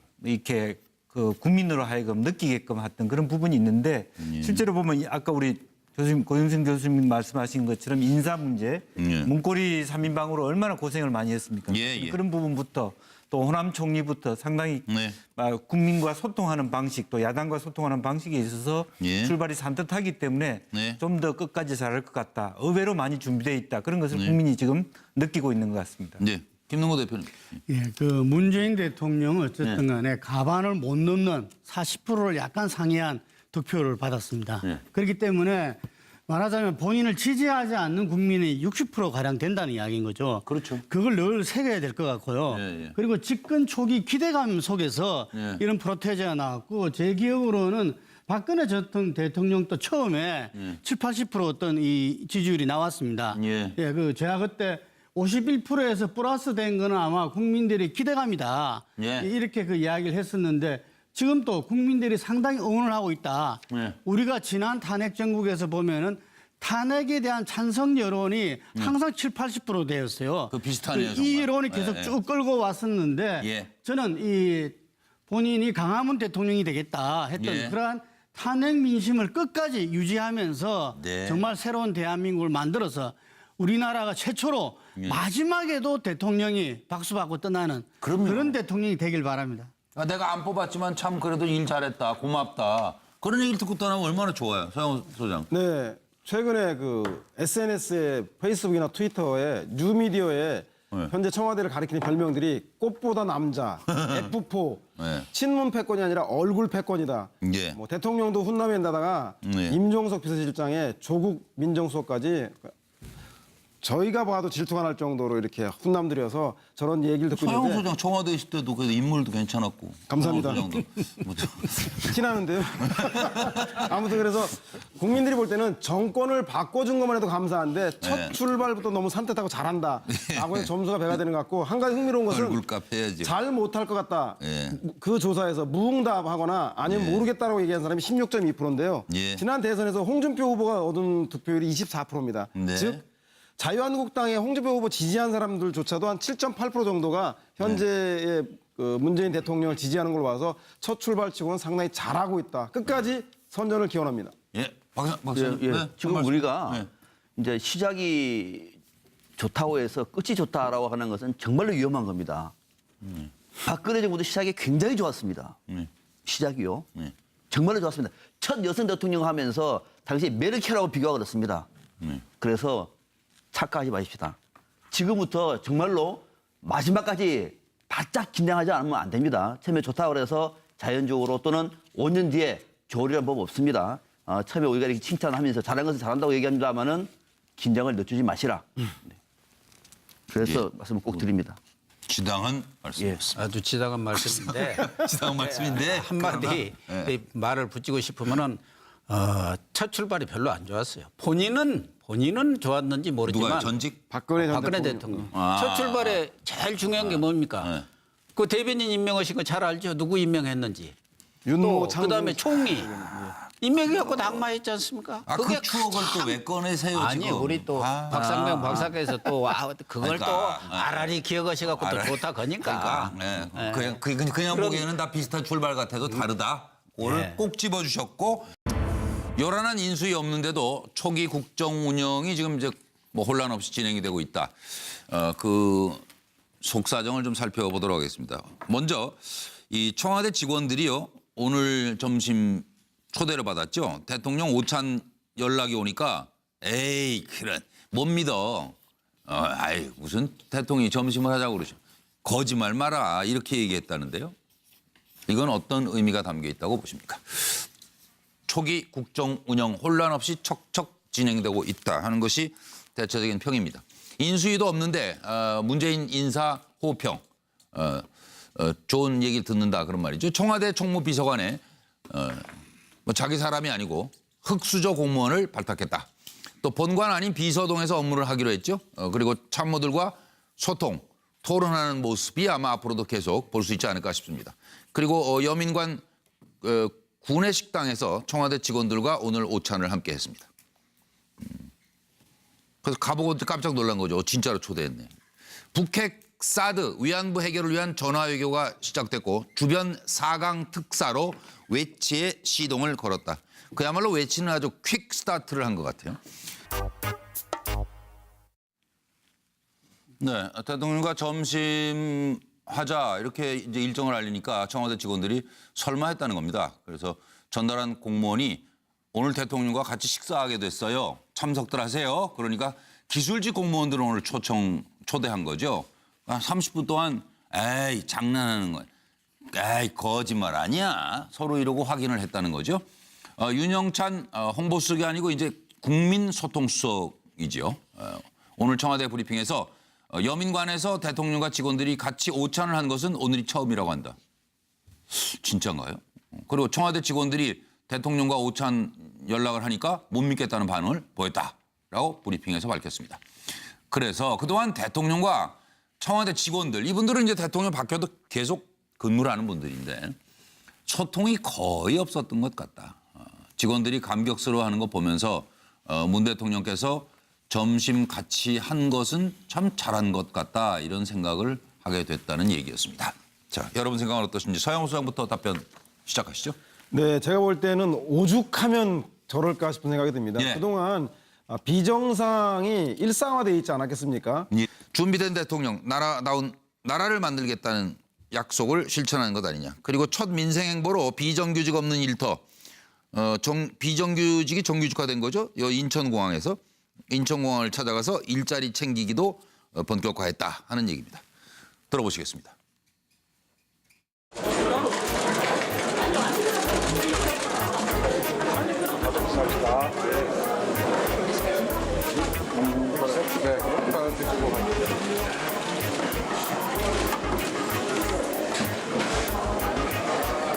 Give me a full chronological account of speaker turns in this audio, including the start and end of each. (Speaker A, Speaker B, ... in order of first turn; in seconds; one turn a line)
Speaker A: 0.2-26.2
Speaker B: 4.2-4.6
Speaker B: 9.0-9.3
Speaker B: 11.7-12.2
Speaker B: 14.9-15.2
Speaker B: 19.0-19.3
Speaker B: 20.7-21.0
Speaker B: 24.1-24.4
Speaker B: 26.2-27.6
Speaker C: 27.7-89.7
Speaker B: 40.4-40.8
Speaker B: 42.5-43.0
Speaker B: 45.3-45.6
Speaker B: 53.3-53.8
Speaker B: 59.0-59.3
Speaker B: 63.7-64.0
Speaker B: 70.5-72.2
Speaker B: 73.4-73.7
Speaker B: 77.4-77.8
Speaker B: 80.9-81.5
Speaker B: 85.0-85.2
Speaker B: 88.0-88.6
Speaker B: 90.0-95.5
Speaker D: 95.5-112.7
Speaker B: 103.9-104.2
Speaker B: 105.0-105.3
Speaker B: 107.4-107.8
Speaker B: 109.4-109.8
Speaker D: 113.8-117.8
Speaker B: 117.3-122.1
Speaker D: 120.1-120.7
Speaker D: 121.9-132.6
Speaker B: 122.8-123.9
Speaker B: 128.0-128.3
Speaker B: 130.1-130.7
Speaker B: 132.3-133.3
Speaker D: 133.2-143.0
Speaker B: 134.4-134.8
Speaker B: 136.8-137.2
Speaker B: 139.1-139.4
Speaker B: 142.5-143.0
Speaker D: 143.6-154.3
Speaker B: 154.5-156.9
Speaker E: 155.3-156.8
Speaker E: 157.3-158.8
Speaker E: 159.4-162.5
Speaker B: 163.0-163.3
Speaker E: 163.6-165.6
Speaker E: 166.2-166.8
Speaker E: 167.5-171.7
Speaker E: 172.4-172.9
Speaker E: 173.5-174.4
Speaker E: 174.9-189.1
Speaker E: 190.3-191.6
Speaker B: 192.1-193.5
Speaker F: 193.3-203.7
Speaker B: 194.1-197.1
Speaker B: 203.3-204.0
Speaker D: 204.1-205.3
Speaker F: 204.4-207.7
Speaker B: 205.3-206.2
Speaker B: 206.9-207.8
Speaker F: 208.3-210.9
Speaker D: 211.4-213.3
Speaker F: 211.6-216.3
Speaker B: 215.3-219.3
Speaker F: 216.9-224.8
Speaker B: 220.0-221.1
Speaker B: 221.7-228.5
Speaker F: 227.0-227.4
Speaker B: 229.3-236.0
Speaker B: 236.6-248.8
Speaker B: 249.3-254.3
Speaker B: 255.3-257.6
Speaker B: 258.5-276.1
Speaker B: 276.6-286.0
Speaker B: 286.6-290.5
Speaker B: 291.4-291.7
Speaker B: 292.8-295.1
Speaker B: 295.7-306.2
Speaker B: 310.2-328.9
Speaker B: 329.5-332.8
Speaker B: 333.4-344.1
Speaker B: 345.1-353.2
Speaker B: 353.9-360.1
Speaker B: 360.9-376.6
Speaker D: 376.9-384.5
Speaker B: 384.5-392.4
Speaker B: 393.1-401.2
Speaker B: 401.9-402.6